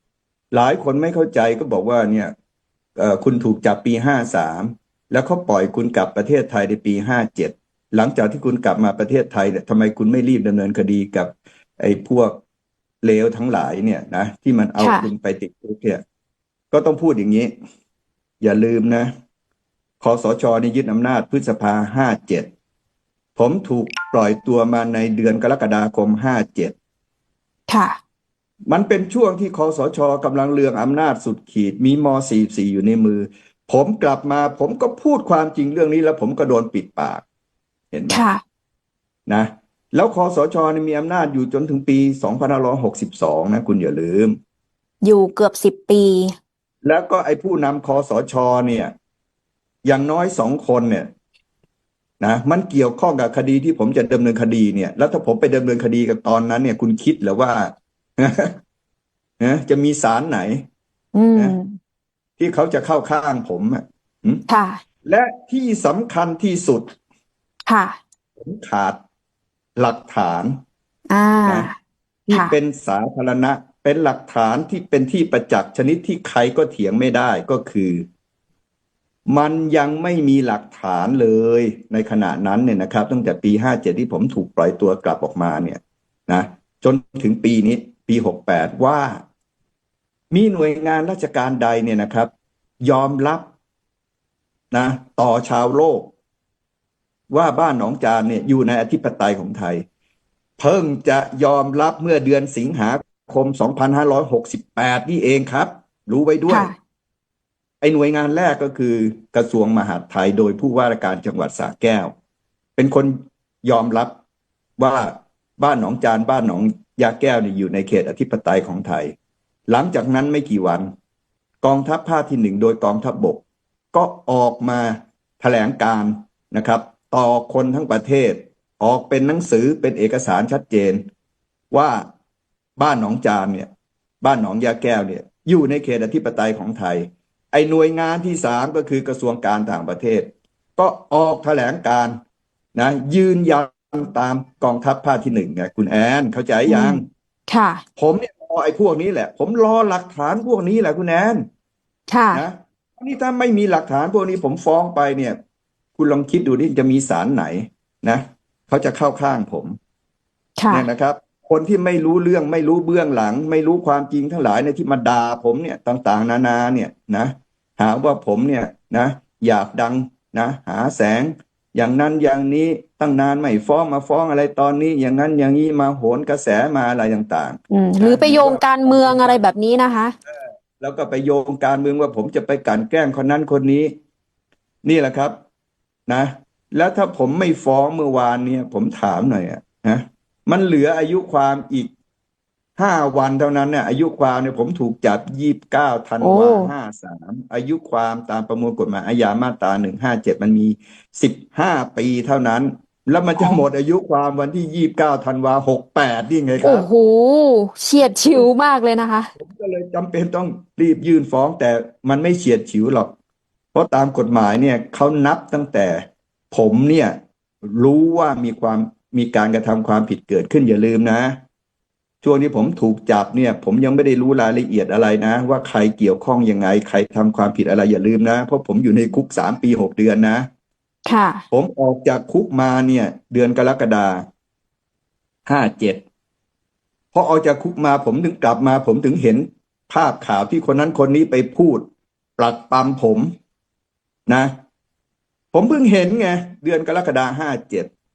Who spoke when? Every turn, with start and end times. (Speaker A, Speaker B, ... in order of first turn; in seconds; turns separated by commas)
Speaker A: 0.5-2.3, Speaker A: 3.0-12.4, Speaker A: 13.0-16.0, Speaker B: 14.8-15.1, Speaker A: 16.7-17.5, Speaker A: 18.4-19.1, Speaker A: 20.0-22.5, Speaker A: 23.4-26.8, Speaker B: 27.7-28.0, Speaker A: 28.7-37.2, Speaker A: 37.9-38.2, Speaker B: 38.1-38.4, Speaker A: 39.3-44.4, Speaker B: 45.0-46.3, Speaker A: 46.8-48.9, Speaker A: 49.9-51.1, Speaker A: 52.2-58.6, Speaker A: 59.4-60.6, Speaker B: 61.1-61.8, Speaker A: 62.4-64.4, Speaker B: 64.5-64.8, Speaker A: 65.0-66.9, Speaker B: 67.7-68.0, Speaker A: 68.4-69.0, Speaker A: 69.8-70.6, Speaker B: 71.1-71.8, Speaker A: 72.3-78.1, Speaker A: 79.3-89.2, Speaker A: 90.3-92.3, Speaker A: 92.8-93.5, Speaker A: 94.7-96.1, Speaker A: 97.3-99.8, Speaker A: 100.6-106.7, Speaker B: 106.5-106.8, Speaker A: 107.8-112.1, Speaker A: 112.8-114.2, Speaker A: 114.8-119.1, Speaker A: 119.7-120.9, Speaker A: 121.6-131.1, Speaker A: 131.7-132.1, Speaker A: 132.8-133.7, Speaker A: 134.2-142.2, Speaker A: 142.8-147.1, Speaker B: 146.7-147.8, Speaker A: 148.0-151.5, Speaker B: 152.1-152.4, Speaker A: 152.3-155.4, Speaker A: 156.0-159.8, Speaker B: 160.6-160.9, Speaker A: 160.7-179.4, Speaker B: 177.7-180.1, Speaker A: 180.3-183.9, Speaker A: 184.8-185.4, Speaker A: 186.1-191.9, Speaker A: 192.8-206.9, Speaker B: 196.2-196.7, Speaker B: 206.6-209.3, Speaker A: 208.0-208.5, Speaker A: 209.3-213.1, Speaker A: 213.7-221.4, Speaker A: 222.2-230.5, Speaker B: 231.1-231.4, Speaker A: 231.5-234.3, Speaker A: 235.5-236.0, Speaker A: 237.1-241.9, Speaker A: 242.4-243.3, Speaker A: 245.5-247.9